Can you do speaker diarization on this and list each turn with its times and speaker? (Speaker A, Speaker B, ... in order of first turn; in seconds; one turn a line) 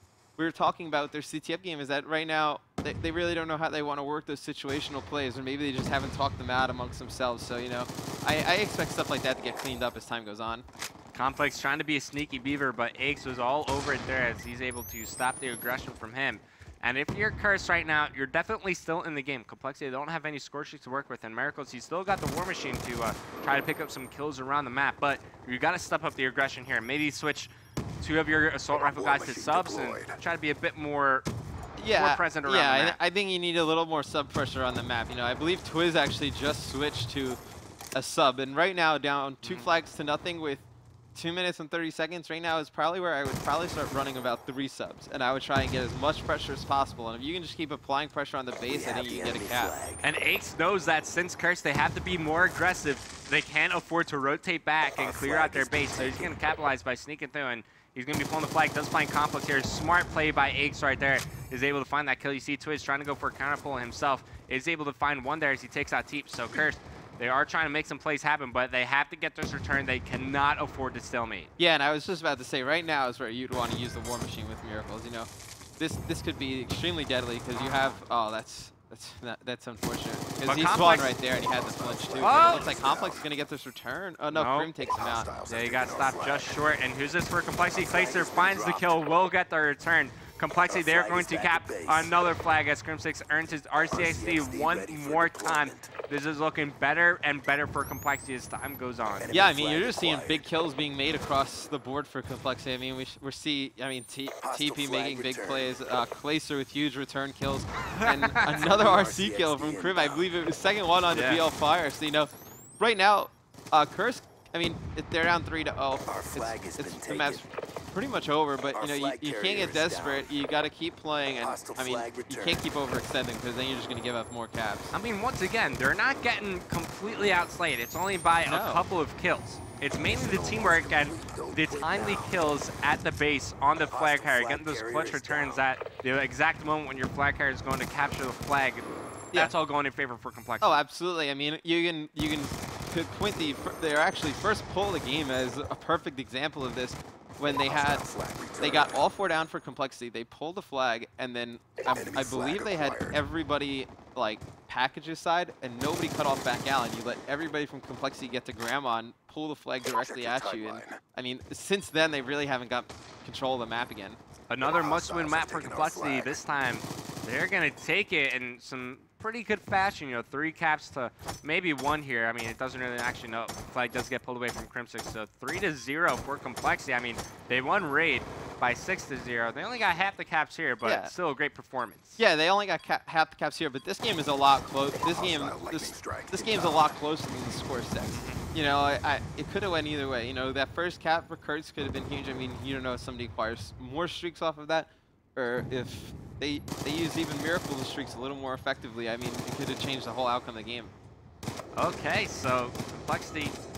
Speaker A: 0.4-10.7
Speaker B: 11.1-27.5
Speaker B: 28.0-31.3
Speaker C: 28.7-30.2
Speaker A: 31.8-37.4
Speaker B: 31.9-33.0
Speaker A: 37.9-49.8
Speaker B: 39.4-39.7
Speaker C: 48.7-50.0
Speaker B: 50.0-71.5
Speaker C: 55.0-56.4
Speaker A: 71.6-85.3
Speaker B: 77.5-78.0
Speaker B: 80.5-81.1
Speaker C: 81.2-83.5
Speaker B: 82.2-82.7
Speaker B: 84.3-84.7
Speaker C: 84.8-86.7
Speaker B: 85.5-99.4
Speaker C: 87.6-89.3
Speaker C: 90.7-92.1
Speaker C: 93.8-95.9
Speaker C: 99.2-100.5
Speaker A: 99.3-124.9
Speaker C: 104.4-106.1
Speaker B: 107.9-108.5
Speaker C: 108.5-110.3
Speaker B: 111.1-111.4
Speaker C: 116.0-117.5
Speaker C: 118.7-120.3
Speaker C: 121.4-122.7
Speaker B: 124.9-140.8
Speaker A: 128.5-128.9
Speaker C: 129.9-132.5
Speaker C: 133.9-135.6
Speaker A: 140.6-148.1
Speaker C: 147.6-149.1
Speaker A: 148.6-164.2
Speaker C: 151.9-153.2
Speaker C: 159.9-161.0
Speaker B: 164.5-182.2
Speaker C: 164.6-166.4
Speaker A: 180.8-181.1
Speaker A: 182.2-200.9
Speaker C: 184.9-187.0
Speaker B: 188.1-188.4
Speaker B: 201.8-203.6